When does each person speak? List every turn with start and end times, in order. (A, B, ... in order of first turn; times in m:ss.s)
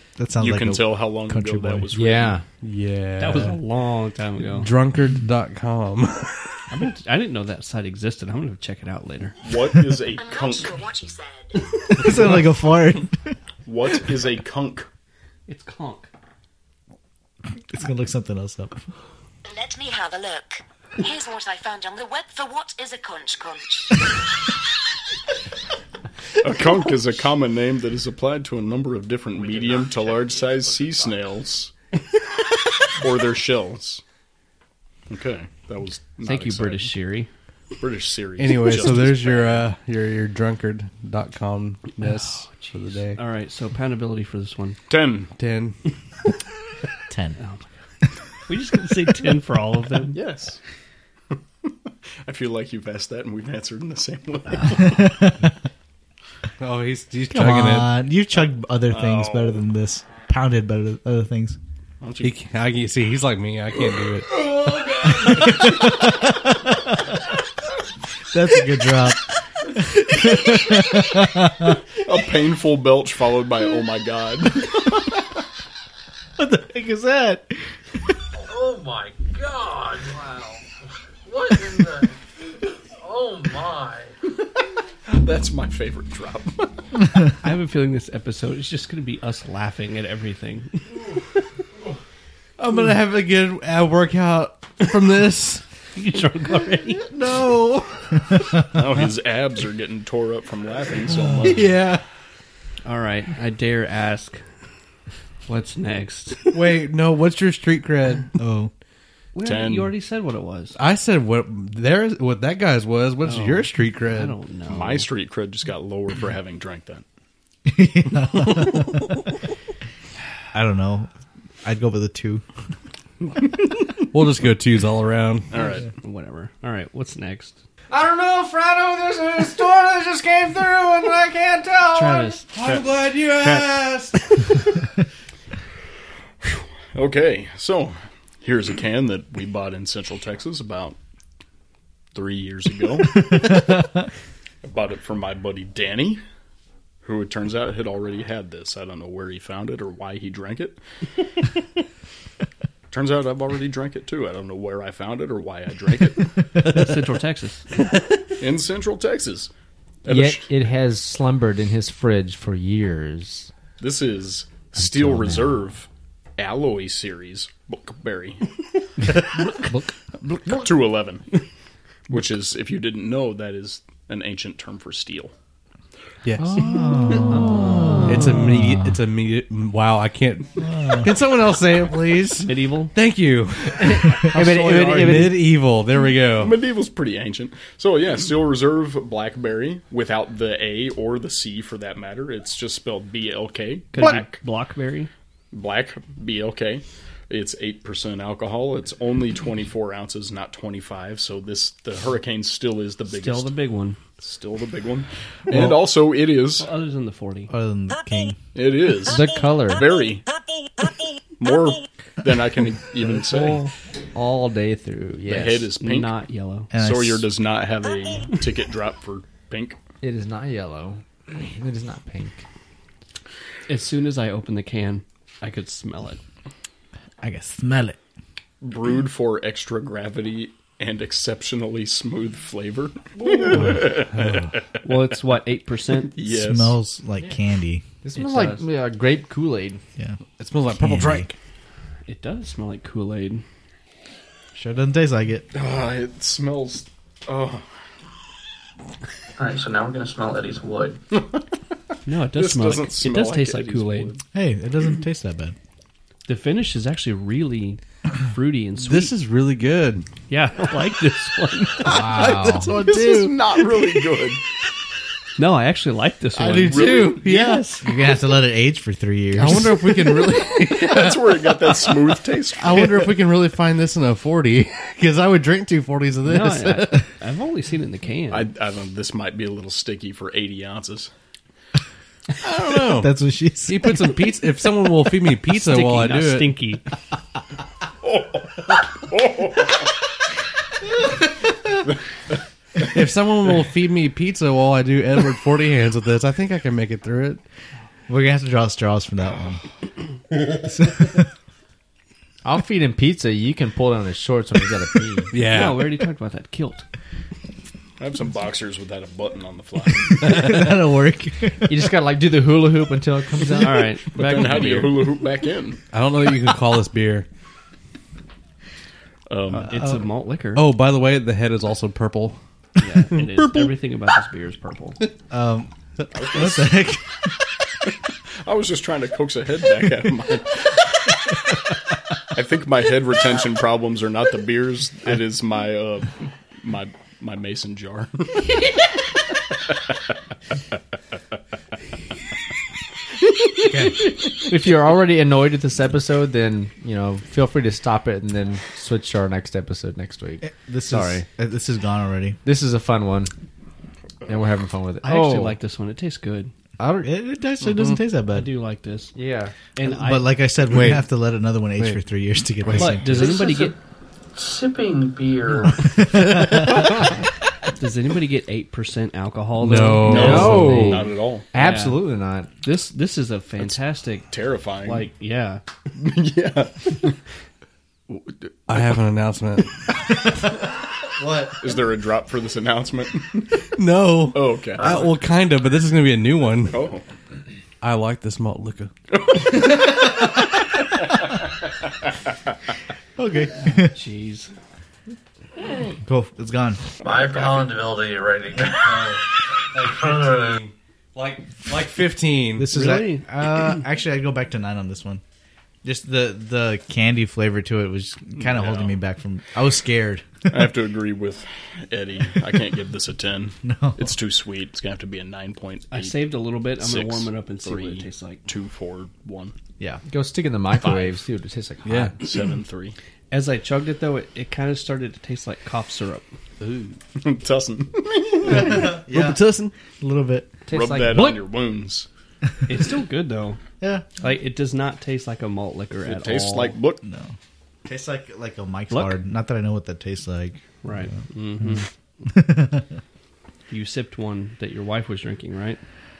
0:00.2-0:01.9 A
0:00.4-0:02.4 B
0:01.9-0:02.4 C
0:02.6-0:03.6 D
0:03.2-0:04.7 E
0:04.6-0:06.8 D
0:06.7-0:09.4 E
0:09.4-0:10.8 B
0:10.1-0:11.6 F
0:11.9-0:13.3 A
0:13.6-0:14.9 B
0:15.5-0:16.1 E
0:17.7-0:18.8 A
0:19.5-0:24.1 F
0:26.4-0:31.7 B
0:32.9-0:34.0 B
0:35.1-0:36.9 B
0:36.2-0:37.3 E
0:37.8-0:39.6 B
0:38.4-0:43.2 D
0:42.0-0:44.8 E
0:44.9-0:45.3 B
0:45.4-0:45.8 D
0:47.1-0:47.4 A
0:48.5-0:50.2 E
0:50.1-0:50.6 B
0:52.2-0:55.1 B
0:54.8-0:55.5 A
0:56.6-0:57.9 D
0:57.3-1:01.6 A
0:58.9-0:59.6 B
1:02.0-1:02.3 B
1:02.2-1:04.5 D
1:04.5-1:05.2 B
1:05.1-1:07.2 A
1:08.3-1:09.2 A
1:09.8-1:11.8 A
1:11.9-1:14.9 B
1:16.4-1:17.6 A
1:18.4-1:20.7 G
1:21.2-1:22.2 G
1:22.9-1:24.1 G
1:25.1-1:26.7 B
1:27.4-1:31.2 E
1:32.6-1:35.6 D
1:36.0-1:37.1 E
1:37.1-1:37.9 D
1:38.6-1:41.7 B
1:41.4-1:42.0 D
1:42.8-1:44.4 E
1:45.5-1:46.8 E
1:46.5-1:48.4 D
1:48.4-1:48.7 A
1:49.4-1:50.8 E
1:49.4-1:49.9 B
1:50.8-1:54.4 D
1:53.2-1:55.1 E
1:54.7-1:57.0 B
1:57.7-1:59.2 A
2:00.5-2:01.1 A
2:01.6-2:02.4 A
2:04.1-2:05.5 D
2:05.5-2:05.9 B
2:05.6-2:07.6 E
2:07.9-2:12.4 C
2:11.9-2:13.7 E
2:12.5-2:14.2 D
2:16.4-2:21.0 B
2:22.1-2:23.8 B
2:24.6-2:26.2 B
2:27.0-2:30.8 B
2:32.9-2:36.4 B
2:36.6-2:37.8 E
2:38.4-2:39.5 B
2:40.0-2:40.5 B
2:40.1-2:43.5 C
2:43.8-2:48.4 B
2:44.8-2:45.6 C
2:49.5-2:50.7 C
2:50.5-2:51.3 B
2:52.1-2:55.3 B
2:56.2-3:06.6 D
2:56.4-2:58.0 C
2:56.6-2:59.0 A
2:57.5-2:58.4 E
3:00.6-3:01.1 A
3:02.4-3:02.9 E
3:03.8-3:05.4 C
3:04.4-3:05.3 E
3:06.4-3:14.4 B
3:13.9-3:15.1 E
3:15.5-3:23.5 B
3:23.1-3:24.0 E
3:24.2-3:26.7 B
3:25.5-3:25.8 A
3:26.6-3:27.5 E
3:27.5-3:28.4 A
3:28.5-3:30.3 B
3:29.1-3:29.9 C
3:31.4-3:33.7 B
3:34.1-3:35.7 C
3:35.3-3:36.2 B
3:35.8-3:36.7 E
3:36.7-3:37.3 A
3:36.7-3:39.8 B
3:40.0-3:42.4 C
3:43.7-3:46.2 E
3:47.2-3:48.0 A
3:48.6-3:54.8 B
3:53.6-3:54.5 D
3:54.8-3:56.1 E
3:56.0-3:56.8 B
3:56.2-3:57.8 A
3:58.0-3:59.8 C
3:58.2-3:58.6 E
4:00.4-4:01.4 D
4:00.7-4:01.3 A
4:02.1-4:03.4 E
4:04.6-4:05.5 A
4:05.5-4:07.7 B
4:09.4-4:11.0 G
4:11.1-4:11.4 B
4:12.1-4:14.1 E
4:12.3-4:14.2 B
4:14.3-4:15.6 A
4:16.3-4:19.1 E
4:18.8-4:20.1 D
4:20.3-4:22.0 E
4:21.9-4:22.7 C
4:21.9-4:23.4 A
4:22.2-4:22.7 D
4:22.7-4:24.4 B
4:25.4-4:27.7 E
4:26.4-4:27.8 D
4:26.6-4:27.2 B
4:27.8-4:30.2 A
4:29.4-4:37.1 D
4:30.5-4:33.2 B
4:36.2-4:38.5 E
4:38.3-4:41.1 B
4:42.4-4:46.6 D
4:42.8-4:44.2 A
4:45.5-4:46.8 E
4:48.0-4:49.9 B
4:52.8-4:57.4 D
4:58.1-4:59.6 A
5:00.5-5:01.2 A
5:02.4-5:05.3 C
5:05.3-5:06.0 D
5:05.4-5:06.9 E
5:08.0-5:10.4 B
5:10.2-5:11.9 A
5:10.2-5:10.8 D
5:11.7-5:13.8 C
5:13.6-5:15.0 E
5:14.0-5:15.8 B
5:15.9-5:17.3 D
5:19.3-5:19.8 B
5:19.5-5:20.7 E
5:20.6-5:22.4 D
5:22.8-5:25.0 E
5:23.1-5:23.7 D
5:25.3-5:27.4 A
5:26.1-5:26.8 B
5:28.4-5:30.8 B
5:32.3-5:38.5 B
5:44.4-5:51.3 C
5:50.4-5:52.4 A
5:52.4-5:53.3 C
5:54.3-5:55.6 C
5:55.0-5:56.5 E
5:56.8-5:57.1 C
5:57.0-5:58.5 A
5:58.3-5:59.1 E
5:59.2-5:59.5 C
5:59.8-6:00.4 E
5:59.8-6:03.3 A
6:02.7-6:03.8 E
6:03.1-6:03.8 G
6:04.3-6:06.0 G
6:06.0-6:06.9 A
6:07.7-6:12.0 E
6:09.6-6:10.9 D
6:10.0-6:12.5 C
6:10.0-6:11.5 B
6:12.6-6:14.3 E
6:13.6-6:15.1 B
6:14.8-6:15.6 E
6:16.0-6:17.2 B
6:18.1-6:18.8 B
6:18.7-6:19.8 D
6:21.2-6:21.6 A
6:21.6-6:23.6 B
6:23.8-6:26.9 D
6:24.3-6:25.1 B
6:26.7-6:27.0 B
6:27.8-6:28.9 D
6:29.1-6:30.4 B
6:31.0-6:31.4 B
6:33.2-6:33.9 A
6:33.6-6:34.5 E
6:36.0-6:36.8 A
6:37.0-6:39.2 G
6:37.0-6:37.7 B
6:38.8-6:42.7 D
6:39.8-6:40.6 G
6:42.6-6:45.2 A
6:42.7-6:43.3 E
6:45.8-6:50.4 A
6:48.4-6:49.0 B
6:50.5-6:59.6 B
6:53.6-6:54.0 A
6:55.9-6:58.4 E
7:00.1-7:02.2 C
7:00.7-7:01.2 B
7:01.8-7:02.2 D
7:02.2-7:03.0 B
7:03.3-7:06.2 E
7:07.2-7:08.9 B
7:08.5-7:09.4 A
7:08.5-7:09.7 D
7:10.0-7:10.5 A
7:10.7-7:11.5 C
7:10.7-7:12.1 B
7:12.7-7:13.6 E
7:13.8-7:14.1 A
7:14.2-7:16.7 E
7:16.0-7:17.0 B
7:17.0-7:17.3 A
7:17.8-7:20.6 A
7:18.9-7:19.2 E
7:20.8-7:21.9 E
7:21.6-7:22.9 A
7:23.7-7:25.8 E